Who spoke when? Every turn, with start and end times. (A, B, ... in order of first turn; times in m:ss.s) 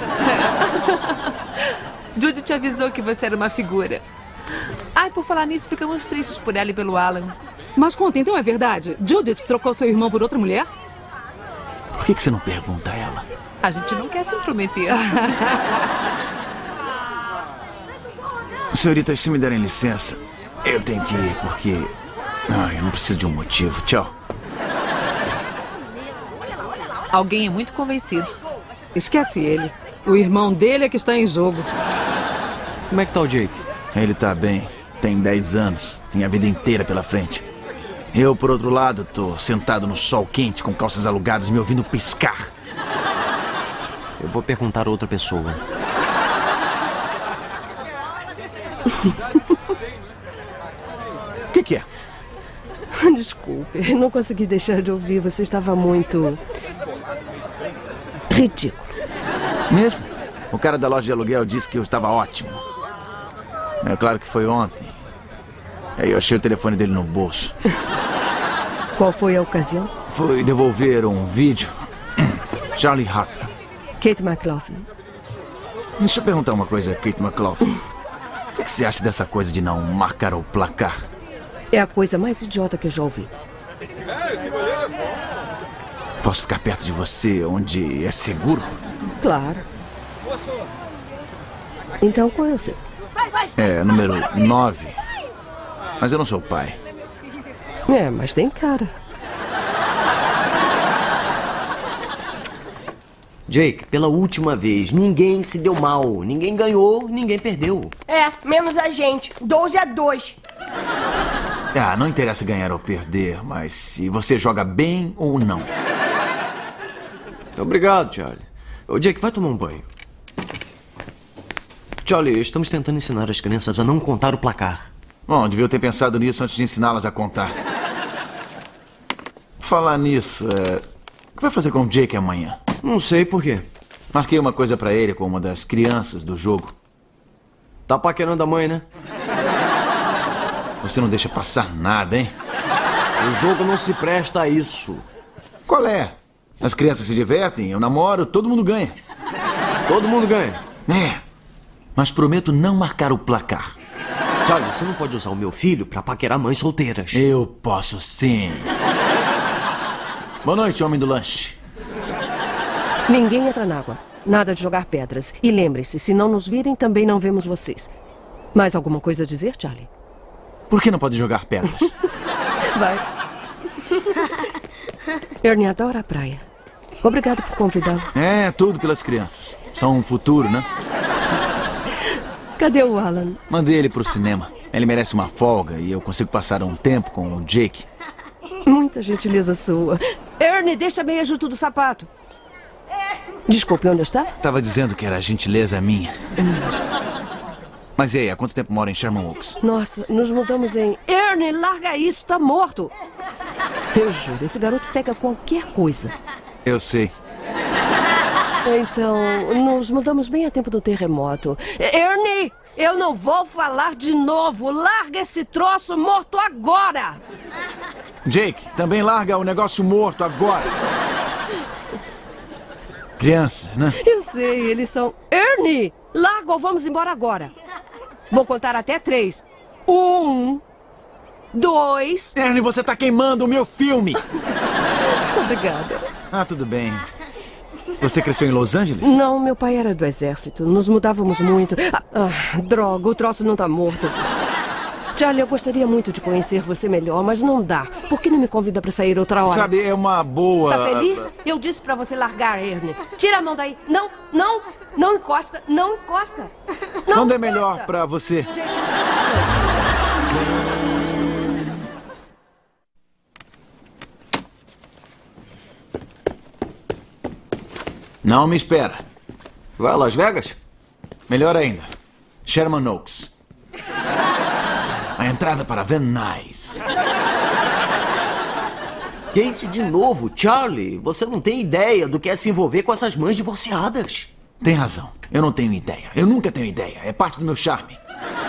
0:00.3-0:01.2 A
0:02.2-0:04.0 A
0:04.9-0:07.3 A
0:07.8-0:10.7 B
0:11.9-0:13.2 C
0:13.6-0:15.1 A
0:15.2-0:15.7 B
0:18.7-0:21.9 C
0:22.5-0:24.1 C
0:27.1-0:28.3 A
0:28.9-0:31.7 B
0:32.9-0:33.6 D
0:33.9-0:37.4 C
0:38.1-0:42.5 C
0:44.2-0:45.6 D
0:51.5-0:51.8 C
0:53.0-0:56.4 E
0:58.3-0:58.9 E
0:59.7-1:02.6 C
1:03.8-1:05.0 C
1:06.0-1:07.6 C
1:09.0-1:09.9 E
1:10.1-1:13.5 C
1:14.0-1:14.9 E
1:16.0-1:17.8 C
1:18.5-1:21.0 C
1:21.7-1:23.3 E
1:26.2-1:28.8 C
1:29.2-1:29.6 E
1:32.0-1:32.8 E
1:33.6-1:35.0 C
1:36.0-1:36.8 C
1:37.9-1:38.9 E
1:43.5-1:47.9 D
1:48.1-1:50.4 F
1:51.7-1:55.7 C
1:57.6-1:59.8 D
2:02.0-2:04.9 D
2:05.3-2:07.6 C
2:09.6-2:10.8 C
2:11.4-2:12.6 C
2:12.8-2:13.6 D
2:14.1-2:16.7 C
2:17.9-2:18.8 D
2:20.8-2:22.3 C
2:23.2-2:25.0 D
2:25.7-2:29.0 C
2:29.9-2:30.6 D
2:30.9-2:31.2 C
2:32.0-2:33.8 C
2:34.4-2:37.3 D
2:37.1-2:38.7 C
2:40.4-2:41.6 C
2:43.1-2:47.9 E
2:48.5-2:49.9 E
2:50.7-2:51.9 C
2:52.7-2:53.0 E
2:55.4-2:56.4 E
2:57.0-2:58.1 E
2:58.1-3:00.7 C
3:02.6-3:03.4 E
3:03.5-3:07.8 C
3:08.6-3:12.1 E
3:13.5-3:14.3 E
3:14.4-3:16.1 C
3:18.0-3:19.6 C
3:19.6-3:22.9 E
3:23.9-3:26.1 E
3:26.6-3:27.1 C
3:28.6-3:37.2 E
3:38.2-3:40.7 C
3:43.2-3:44.0 C
3:44.0-3:47.5 E
3:48.3-3:50.6 E
3:51.5-3:52.3 E
3:52.3-3:54.2 C
3:55.2-3:56.0 E
3:56.3-3:57.0 C
3:58.0-3:59.1 C
3:59.0-4:04.2 E
4:05.1-4:09.7 E
4:09.4-4:11.3 C
4:10.7-4:16.5 E
4:17.0-4:17.9 E
4:17.1-4:18.5 C
4:28.2-4:29.0 C
4:29.8-4:30.6 D
4:31.3-4:31.9 C
4:32.4-4:33.3 C
4:35.2-4:36.8 C
4:39.3-4:44.3 D
4:44.6-4:48.0 C